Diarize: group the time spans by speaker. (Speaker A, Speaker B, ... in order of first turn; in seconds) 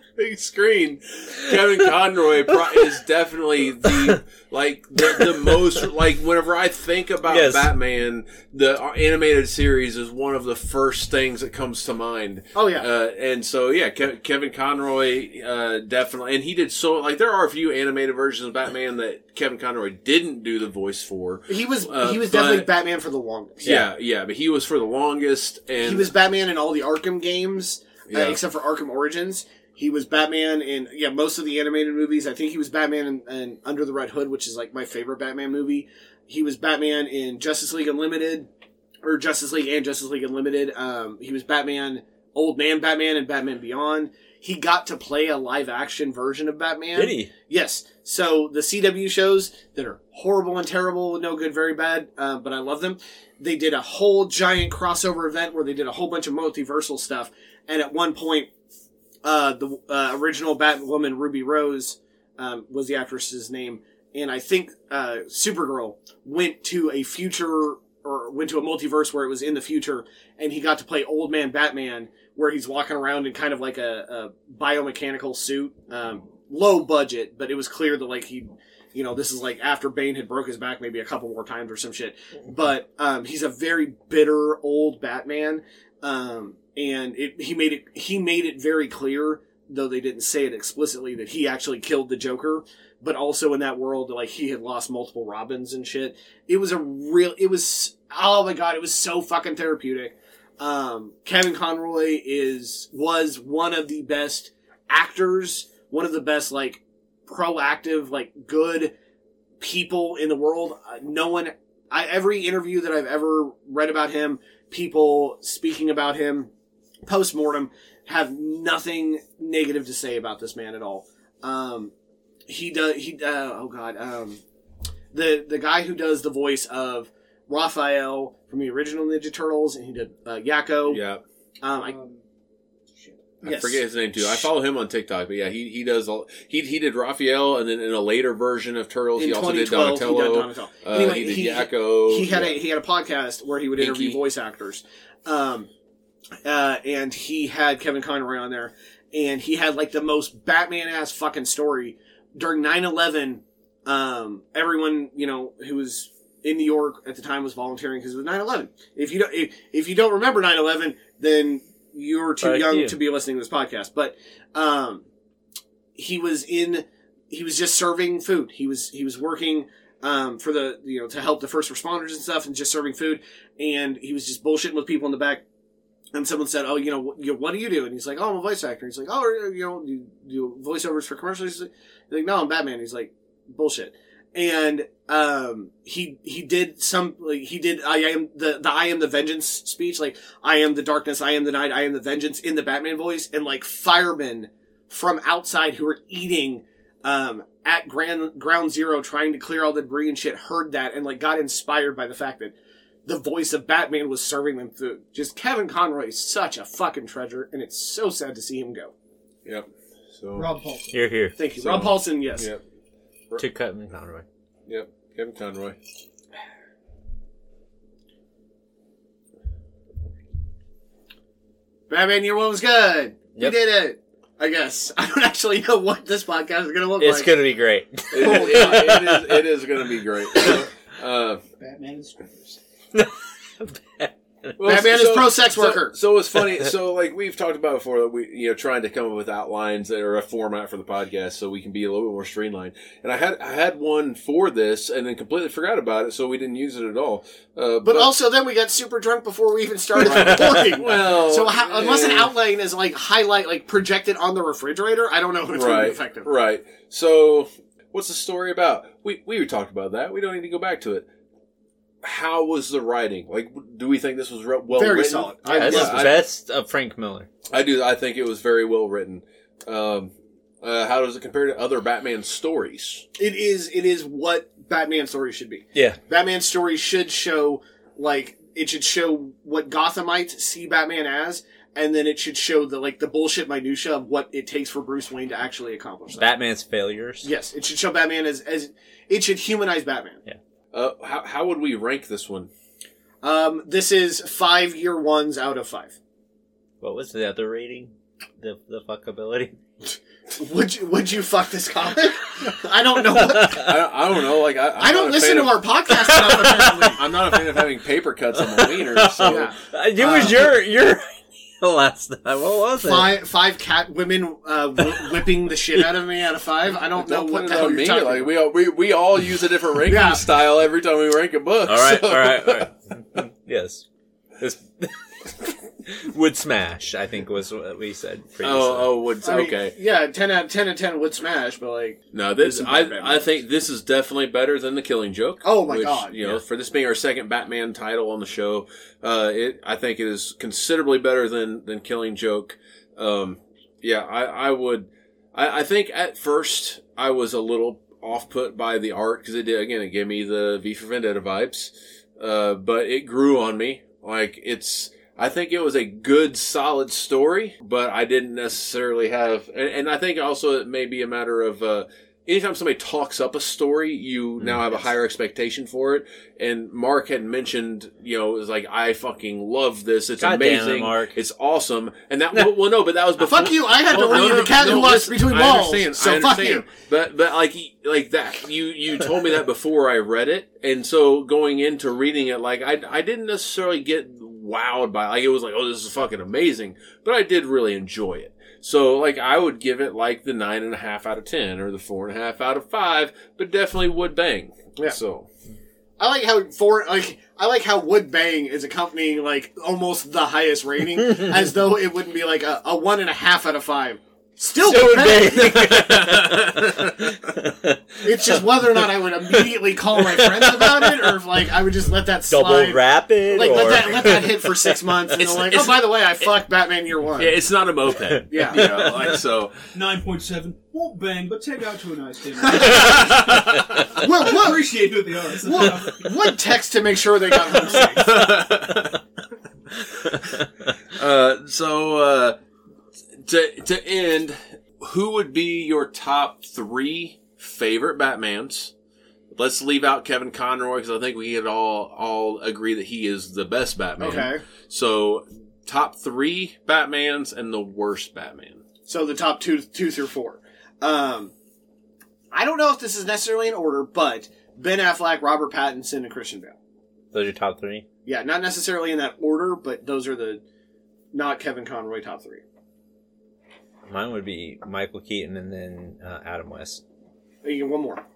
Speaker A: 0.2-22.7, 23.6-26.1, 28.1-28.4, 130.9-131.2, 133.4-142.6, 143.8-144.2, 210.2-210.5, 211.6-212.6, 214.7-215.8, 228.1-231.4, 234.6-248.1, 250.0-252.3, 255.5-261.1, 262.0-266.2, 267.5-273.1, 290.7-292.5, 303.5-305.7, 306.4-309.5, 316.8-322.7, 328.4-329.7, 332.1-395.3, 405.4-407.1, 415.2-415.8, 417.2-419.5, 422.7-423.8, 427.8-429.0, 430.9-432.4, 433.2-438.7, 439.3-448.6
Speaker B: 3.9-4.2, 5.0-5.5, 7.3-7.7, 47.0-47.3, 162.4-163.0, 210.9-211.3, 213.4-214.2, 227.0-229.4, 232.9-234.5, 265.4-267.3, 286.2-287.3, 296.8-299.6, 303.2-303.7, 305.9-306.5, 308.4-313.1, 321.7-323.9, 324.4-328.9, 370.2-371.2, 404.6-408.6, 409.3-411.1, 412.3-414.9, 418.1-419.2, 428.0-428.4, 430.0-430.5, 457.1-457.9, 463.9-466.8
Speaker C: 12.6-12.9, 21.5-23.8, 25.8-38.5, 39.0-58.5, 59.2-108.9, 109.6-116.5, 117.0-121.9, 122.5-124.4, 125.1-131.0, 131.6-131.9, 133.4-134.5, 139.2-145.7, 146.4-165.1, 165.9-175.4, 176.1-202.5, 203.1-208.9, 211.4-212.5, 221.9-227.3, 228.2-229.0, 234.7-236.0, 247.8-256.3, 264.7-266.1, 273.2-286.3, 287.2-290.2, 293.2-296.0, 300.3-303.7, 304.8-307.0, 309.2-310.5, 312.8-318.3, 319.8-320.2, 329.2-333.3, 335.4-336.1, 373.2-376.7, 396.0-405.8, 408.0-417.4, 418.3-418.8, 424.0-424.7, 425.4-428.2, 444.0-444.4, 448.9-451.3, 452.3-456.6, 458.1-460.4, 461.1-462.4, 467.4-468.0
Speaker D: 131.7-132.2, 132.9-133.3, 210.3-210.9, 231.6-232.6, 419.7-426.1